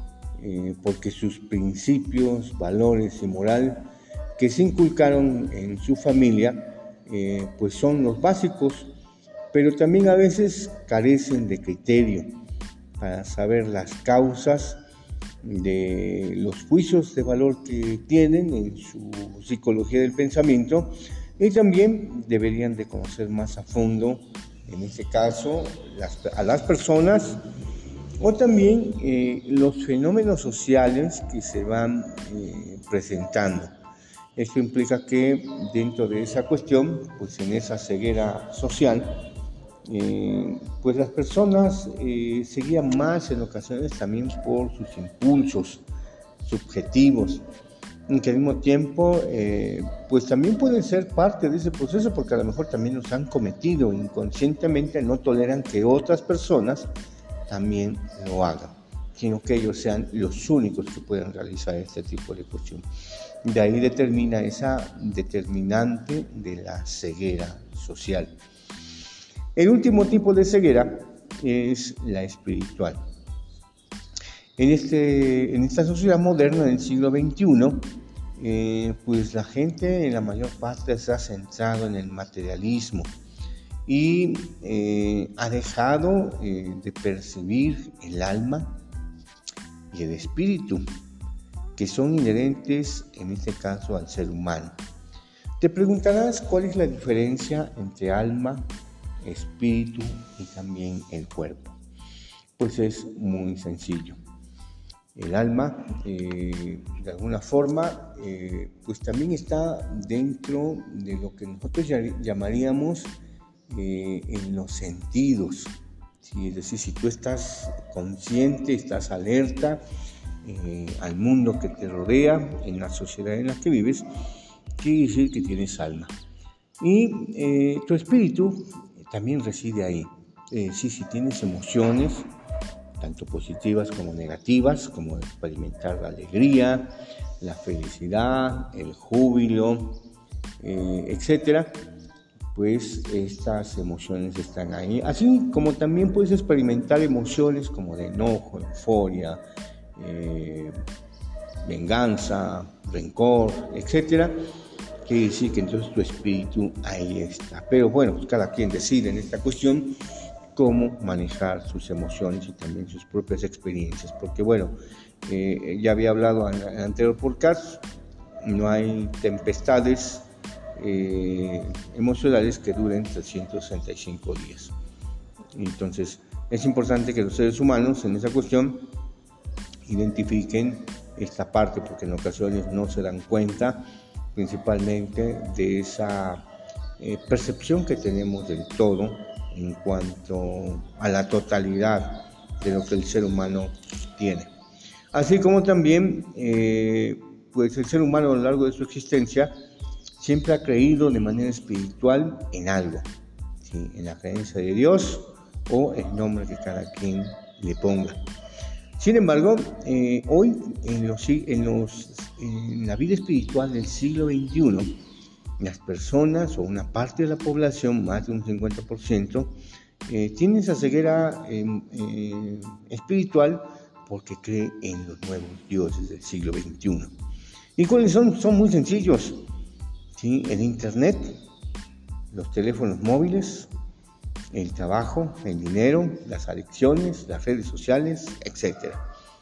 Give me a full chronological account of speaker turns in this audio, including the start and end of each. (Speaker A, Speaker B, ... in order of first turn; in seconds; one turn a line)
Speaker A: 0.4-8.9
Speaker A: 9.5-12.3
Speaker A: 13.0-14.8
Speaker A: 15.4-27.4
Speaker A: 28.2-33.7
Speaker A: 34.4-39.2
Speaker A: 39.9-45.8
Speaker A: 46.4-47.4
Speaker A: 48.1-56.9
Speaker A: 57.5-62.8
Speaker A: 63.5-68.3
Speaker A: 69.6-73.0
Speaker A: 74.6-83.1
Speaker A: 83.9-88.8
Speaker A: 89.9-90.8
Speaker A: 91.8-94.8
Speaker A: 95.6-98.7
Speaker A: 99.2-101.8
Speaker A: 102.6-104.2
Speaker A: 105.2-113.1
Speaker A: 113.7-119.8
Speaker A: 120.4-124.1
Speaker A: 124.8-126.1
Speaker A: 126.8-132.3
Speaker A: 133.0-140.0
Speaker A: 140.6-141.8
Speaker A: 142.5-149.4
Speaker A: 150.0-150.8
Speaker A: 151.6-154.4
Speaker A: 155.1-160.0
Speaker A: 160.6-167.8
Speaker A: 168.4-174.7
Speaker A: 175.6-178.9
Speaker A: 179.9-186.5
Speaker A: 187.0-194.5
Speaker A: 195.1-199.5
Speaker A: 200.2-203.1
Speaker A: 203.6-208.2
Speaker A: 209.0-215.0
Speaker A: 215.6-219.6
Speaker A: 220.1-227.1
Speaker A: 227.8-229.4
Speaker A: 230.2-231.4
Speaker A: 232.3-233.7
Speaker A: 234.5-239.0